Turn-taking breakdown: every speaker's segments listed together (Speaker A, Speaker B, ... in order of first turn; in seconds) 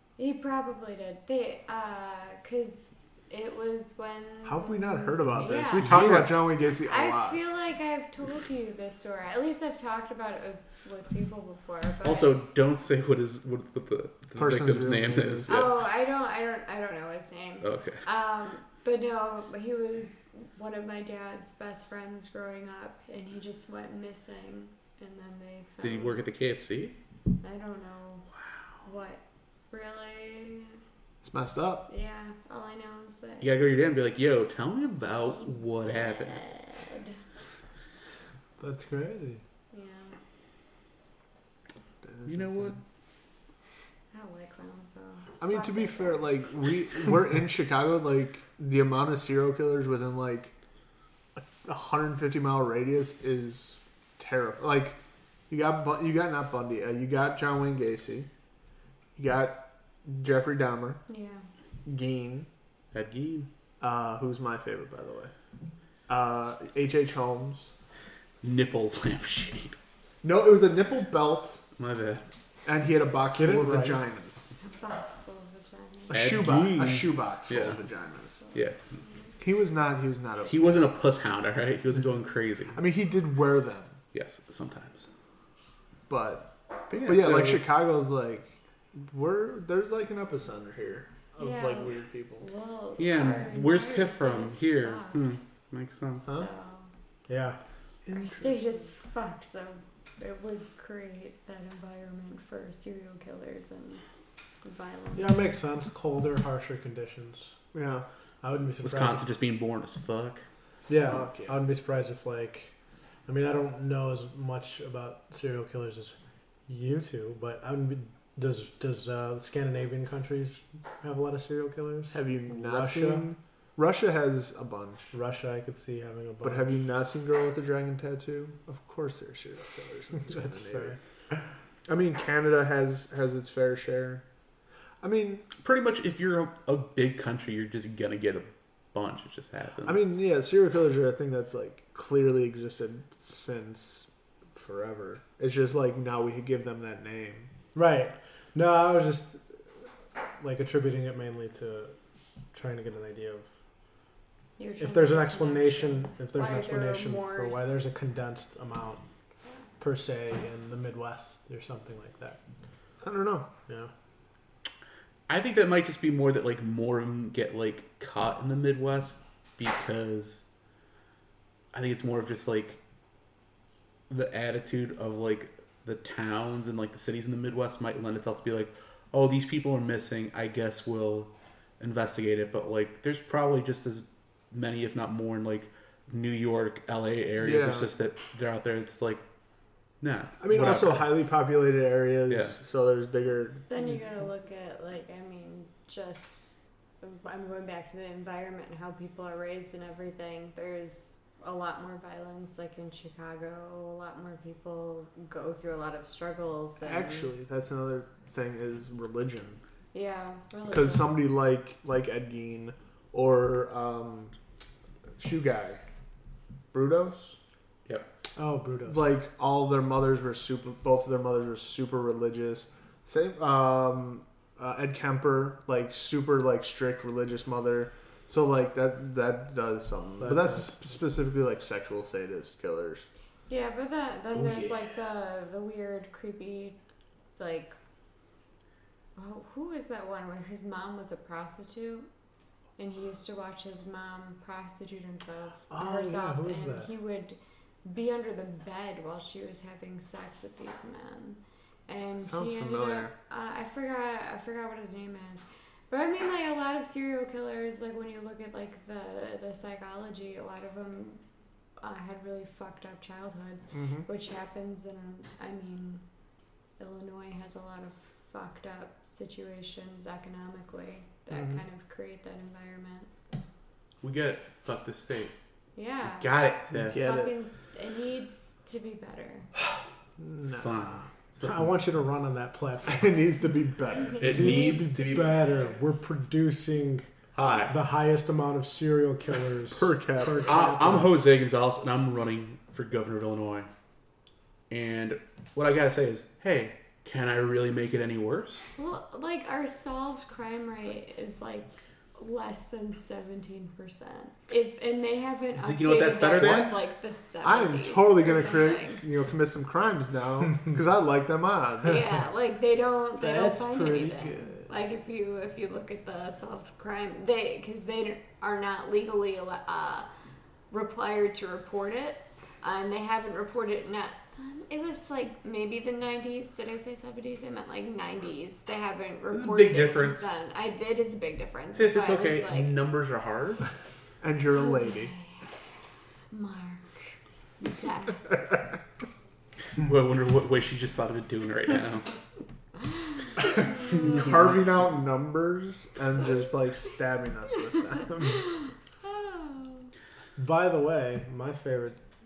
Speaker A: 0.2-6.1, 6.8-12.3, 15.5-26.2, 27.4-28.3, 28.8-30.8, 31.9-33.5, 35.4-37.2, 39.7-40.2, 44.1-46.4, 61.1-61.5, 74.6-76.2, 78.4-79.3, 91.4-95.3, 96.2-96.9, 98.1-104.0, 104.6-105.5, 154.6-157.8, 193.7-207.3, 209.9-211.2, 233.5-236.8, 237.4-237.8, 239.1-242.1, 242.8-261.2, 261.8-266.0, 266.8-273.1, 275.8-276.3, 276.9-279.5, 298.8-309.0, 311.8-320.1, 320.7-332.8, 334.5-335.5, 336.3-338.4, 343.6-344.4, 348.2-349.9
Speaker B: 4.4-7.4, 14.3-15.7, 31.2-31.9, 42.0-42.8, 45.4-50.5, 51.4-55.0, 55.5-58.3, 59.1-61.0, 61.8-62.5, 63.8-65.3, 66.1-67.7, 70.2-71.6, 72.7-74.5, 76.1-78.4, 79.4-80.7, 82.7-84.0, 86.1-86.5, 87.0-92.5, 98.0-98.8, 107.7-108.0, 111.0-111.6, 122.1-125.1, 126.4-131.0, 131.9-134.2, 135.0-135.4, 139.8-147.5, 163.0-163.5, 187.4-187.9, 190.4-193.7, 206.8-209.6, 210.7-214.3, 215.2-215.8, 216.7-217.4, 218.9-233.1, 252.2-253.1, 263.7-264.1, 276.7-277.3, 280.2-281.1, 282.9-284.6, 289.7-290.6, 306.3-306.8, 307.4-312.0, 334.2-335.1, 343.4-348.4
Speaker C: 5.5-6.3, 12.0-15.7, 17.6-18.0, 25.8-26.9, 33.4-36.4, 42.2-42.8, 62.9-63.5, 68.4-69.8, 71.8-72.2, 76.1-77.8, 78.5-78.8, 80.5-82.8, 84.1-85.1, 86.9-87.6, 93.0-96.3, 108.8-110.4, 135.6-140.0, 165.3-170.4, 171.7-172.8, 174.1-189.2, 190.0-191.1, 192.3-192.5, 274.0-275.3, 276.1-277.0, 280.6-281.7, 284.2-285.4, 287.3-287.8, 290.4-293.7, 294.7-298.6, 305.6-306.8, 329.3-330.3, 331.7-333.6, 339.8-342.1, 343.8-344.4
Speaker D: 38.6-39.4, 73.3-74.0, 97.3-97.6, 105.1-107.5, 108.4-109.2, 110.9-112.7, 113.2-123.3, 125.1-126.7, 130.2-131.0, 147.7-149.4, 150.4-151.9, 152.5-153.5, 154.8-159.1, 159.8-162.4, 218.3-219.1, 230.2-230.8, 245.7-246.9, 281.4-283.1, 284.2-287.1, 287.7-291.1, 313.2-314.7, 350.4-352.0